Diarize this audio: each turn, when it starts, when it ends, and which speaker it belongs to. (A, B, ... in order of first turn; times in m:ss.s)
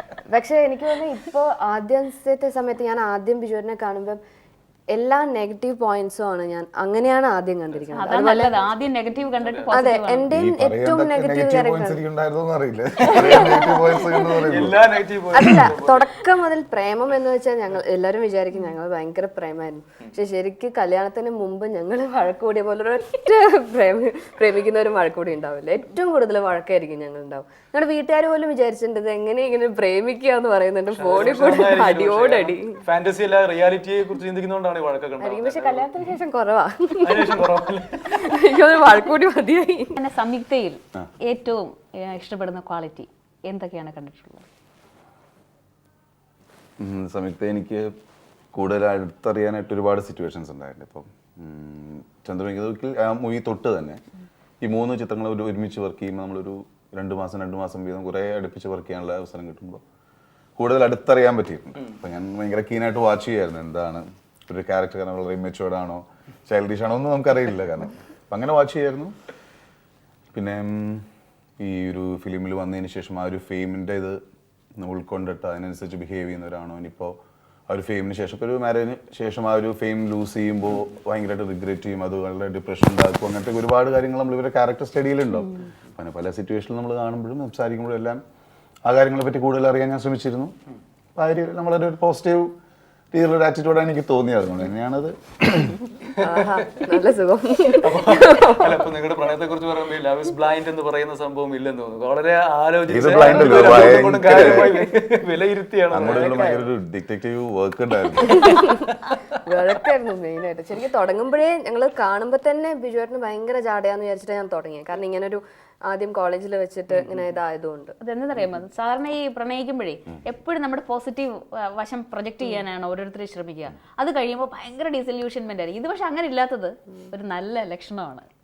0:00.2-0:04.2 A
0:04.9-0:08.6 A
0:07.9-0:10.3 B
0:08.6-0:09.8 C
0:09.7-0:12.0 A
0:10.3-0:14.8 D
0:13.0-0:14.0 A
0:13.1-0:13.5 C
0:14.4-0:16.2 C
0:15.3-0:32.8 A
0:30.9-0:35.9 C
0:35.2-0:37.5 A
0:37.0-0:38.3 C
0:38.1-0:40.0 A
0:40.0-0:44.4 B
0:46.8-0:47.9 D
0:48.5-0:54.0 D
0:54.6-0:59.8 D
1:00.6-1:09.1 D
1:10.3-1:11.0 D
1:11.6-1:14.2 D
1:14.8-1:17.2 D
1:17.7-1:28.2 D
1:28.8-1:30.5 D
1:31.2-1:32.5 D
1:33.1-1:35.8 D
1:36.2-1:38.8 A
1:36.2-1:36.9 C
1:37.8-1:46.3 C
1:42.9-1:44.8 D
1:45.9-1:48.5 D
1:46.0-1:46.7 A
1:48.3-1:57.9 A
1:48.4-1:49.2 C
1:58.0-2:08.3 B